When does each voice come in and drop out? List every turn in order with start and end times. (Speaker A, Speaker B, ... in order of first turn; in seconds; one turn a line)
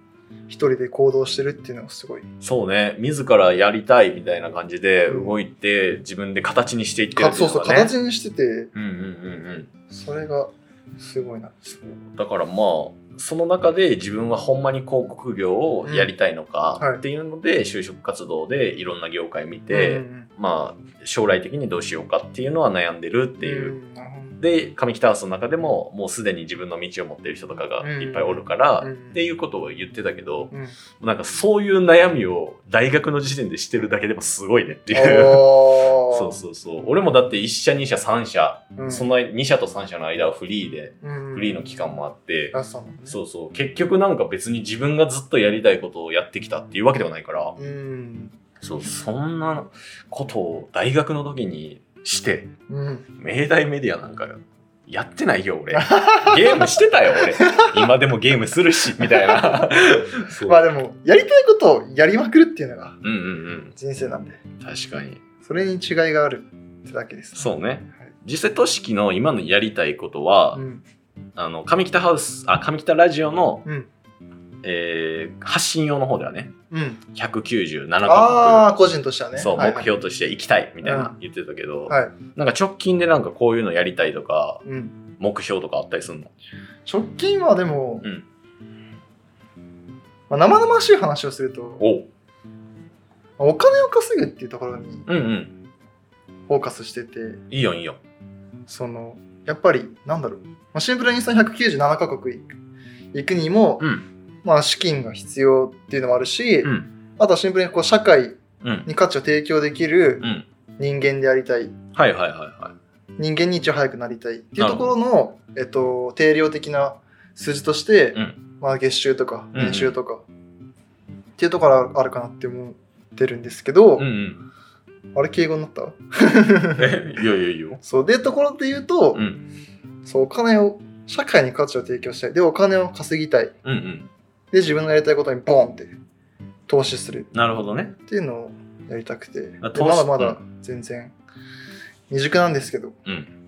Speaker A: 0.5-2.3
Speaker B: 2.4-7.9
Speaker A: 5.1-5.4
Speaker A: 7.2-8.7
Speaker B: 8.7-9.7
Speaker A: 9.9-11.6
Speaker B: 11.6-23.8
Speaker A: 15.8-16.1
Speaker A: 16.8-17.0
Speaker A: 19.7-20.3
Speaker A: 23.4-24.4
Speaker B: 24.4-42.5
Speaker A: 27.8-29.2
Speaker A: 34.9-36.4
Speaker A: 38.8-39.1
Speaker A: 41.0-41.6
Speaker A: 42.5-43.2
Speaker B: 43.1-47.5
Speaker A: 47.6-48.3
Speaker B: 48.6-52.5
Speaker A: 52.7-53.1
Speaker B: 53.2-60.6
Speaker A: 55.7-56.8
Speaker A: 57.3-57.8
Speaker A: 59.0-59.7
Speaker A: 60.4-63.0
Speaker B: 63.0-63.7
Speaker A: 63.8-64.4
Speaker B: 64.6-65.2
Speaker A: 65.4-67.5
Speaker B: 67.3-70.6
Speaker A: 70.5-70.8
Speaker B: 71.4-73.6
Speaker B: 74.6-76.5
Speaker A: 76.7-77.0
Speaker B: 77.1-78.7
Speaker A: 78.0-79.9
Speaker B: 79.3-84.6
Speaker A: 80.8-81.2
Speaker A: 81.9-82.1
Speaker A: 84.6-85.0
Speaker B: 85.2-86.3
Speaker A: 86.8-88.0
Speaker A: 90.3-91.8
Speaker B: 91.8-92.1
Speaker A: 93.4-95.1
Speaker B: 95.1-95.5
Speaker A: 96.5-97.4
Speaker B: 97.5-98.0
Speaker A: 98.7-102.5
Speaker A: 103.1-103.8
Speaker B: 103.8-104.0
Speaker A: 104.4-110.2
Speaker B: 106.6-106.9
Speaker B: 108.6-108.9
Speaker A: 110.8-111.7
Speaker B: 111.9-112.7
Speaker A: 113.2-120.2
Speaker B: 114.6-114.9
Speaker B: 119.5-119.9
Speaker A: 121.4-124.1
Speaker B: 124.0-124.4
Speaker A: 125.1-126.9
Speaker B: 126.7-127.8
Speaker A: 127.8-129.2
Speaker B: 129.1-129.4
Speaker A: 130.0-133.5
Speaker B: 133.6-134.1
Speaker A: 134.5-135.9
Speaker A: 136.7-137.3
Speaker B: 137.3-137.9
Speaker A: 138.0-141.1
Speaker B: 139.6-140.4
Speaker A: 142.1-143.0
Speaker B: 143.1-143.3